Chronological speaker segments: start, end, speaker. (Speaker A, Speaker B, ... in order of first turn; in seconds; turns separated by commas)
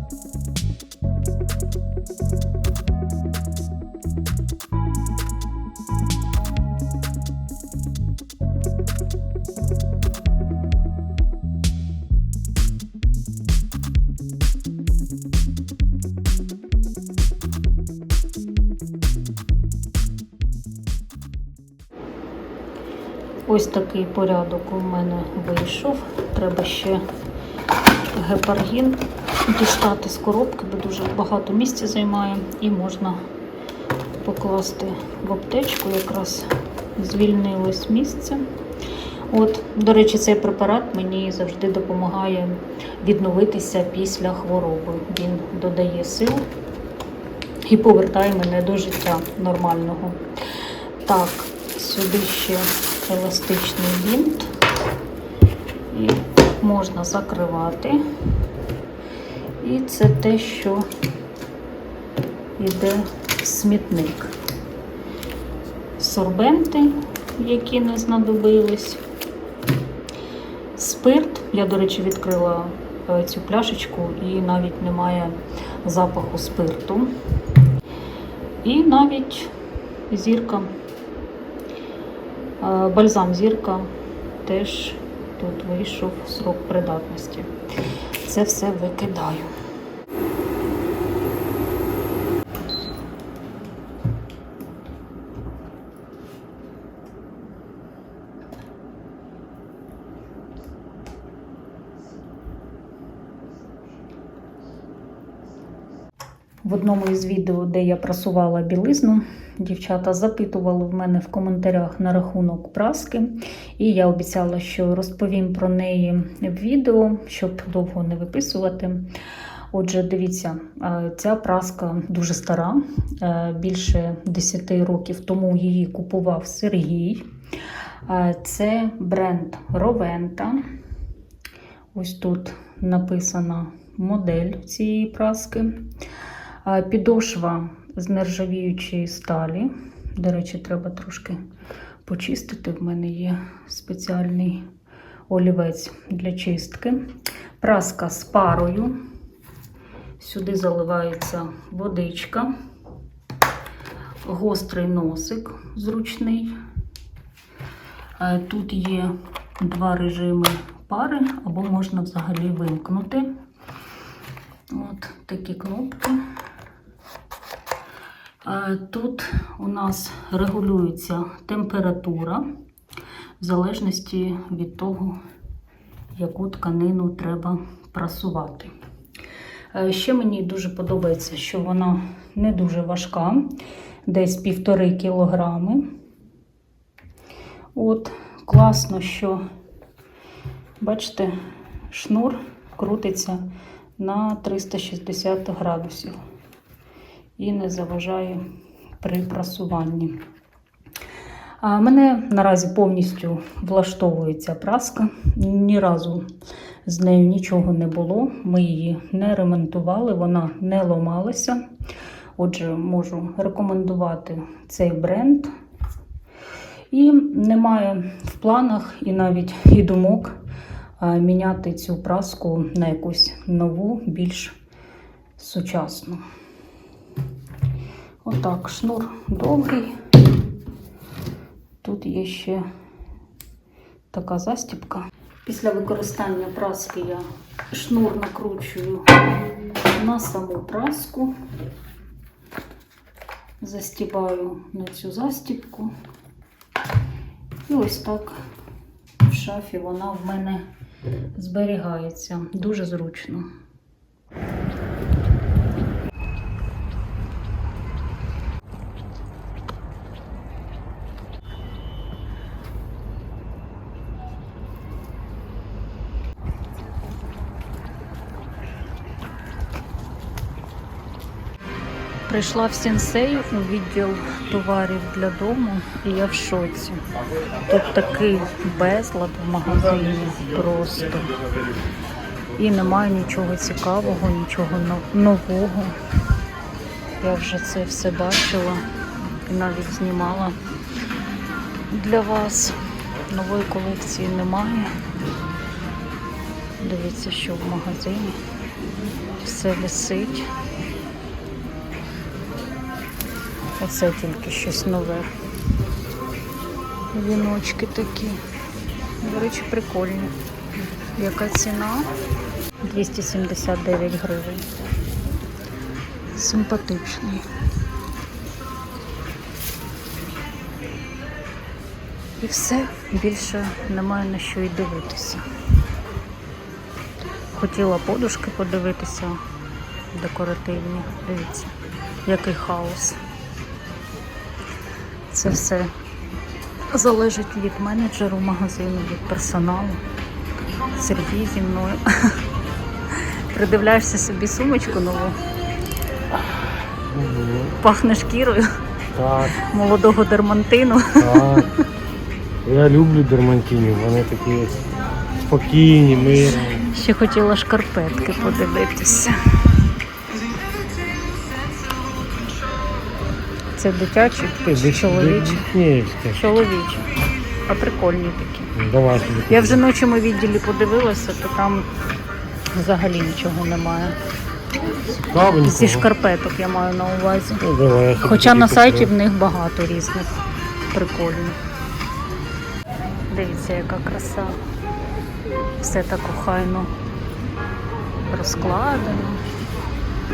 Speaker A: 23.5-27.0, Speaker A: 28.1-33.2, Speaker A: 34.2-38.5, Speaker A: 39.3-46.5, Speaker A: 47.6-50.2, Speaker A: 51.0-54.5, Speaker A: 55.9-58.0, Speaker A: 59.6-60.9, Speaker A: 62.6-64.3, Speaker A: 66.0-69.0, Speaker A: 70.8-77.2, Speaker A: 78.6-79.5, Speaker A: 80.1-80.7, Speaker A: 82.6-83.9, Speaker A: 84.5-87.5, Speaker A: 88.2-89.5, Speaker A: 106.6-119.1, Speaker A: 119.7-127.3, Speaker A: 128.1-130.6, Speaker A: 131.9-135.8, Speaker A: 136.7-141.4, Speaker A: 142.1-144.7, Speaker A: 145.3-147.0, Speaker A: 147.6-149.0, Speaker A: 150.2-152.5, Speaker A: 154.2-156.5, Speaker A: 158.2-163.3, Speaker A: 164.7-166.2, Speaker A: 168.4-172.4, Speaker A: 173.4-175.2, Speaker A: 176.2-178.7, Speaker A: 179.7-183.5, Speaker A: 184.1-185.8, Speaker A: 187.8-189.4, Speaker A: 190.8-191.3, Speaker A: 191.9-193.4, Speaker A: 194.0-196.2, Speaker A: 197.4-198.4, Speaker A: 199.0-200.2, Speaker A: 201.6-206.2, Speaker A: 206.9-211.6, Speaker A: 212.4-215.5, Speaker A: 216.9-220.4, Speaker A: 221.0-224.6, Speaker A: 225.4-226.2, Speaker A: 228.2-230.0, Speaker A: 231.8-232.6, Speaker A: 234.1-239.2, Speaker A: 239.9-241.3, Speaker A: 243.6-245.9, Speaker A: 247.7-248.4, Speaker A: 249.2-250.7, Speaker A: 251.3-253.5, Speaker A: 272.3-277.0, Speaker A: 277.7-281.3, Speaker A: 282.6-285.9, Speaker A: 287.2-288.8, Speaker A: 289.5-290.6, Speaker A: 291.9-292.8, Speaker A: 293.3-294.9, Speaker A: 296.8-298.4, Speaker A: 299.4-300.5, Speaker A: 303.8-305.3, Speaker A: 307.1-308.4, Speaker A: 309.2-310.4, Speaker A: 311.2-312.1, Speaker A: 312.8-314.7, Speaker A: 316.3-317.5, Speaker A: 322.4-325.4, Speaker A: 327.6-329.4, Speaker A: 330.1-331.7, Speaker A: 332.2-333.2, Speaker A: 335.3-335.9, Speaker A: 336.9-340.0, Speaker A: 340.9-342.4, Speaker A: 343.1-345.4, Speaker B: 347.1-347.8, Speaker A: 347.8-348.8, Speaker B: 349.1-349.6, Speaker A: 349.6-351.6, Speaker B: 351.2-351.7, Speaker B: 352.6-354.8, Speaker B: 355.4-356.9, Speaker A: 356.9-359.4, Speaker A: 363.8-365.7, Speaker B: 364.6-366.4, Speaker A: 366.3-367.1, Speaker A: 367.7-368.7, Speaker B: 368.8-369.8, Speaker A: 369.5-371.9, Speaker A: 372.7-374.2, Speaker B: 375.2-376.1, Speaker A: 375.6-377.7, Speaker B: 377.6-379.1, Speaker A: 378.2-380.4, Speaker A: 380.9-381.6, Speaker A: 383.3-384.6, Speaker A: 385.8-386.9, Speaker A: 388.3-389.4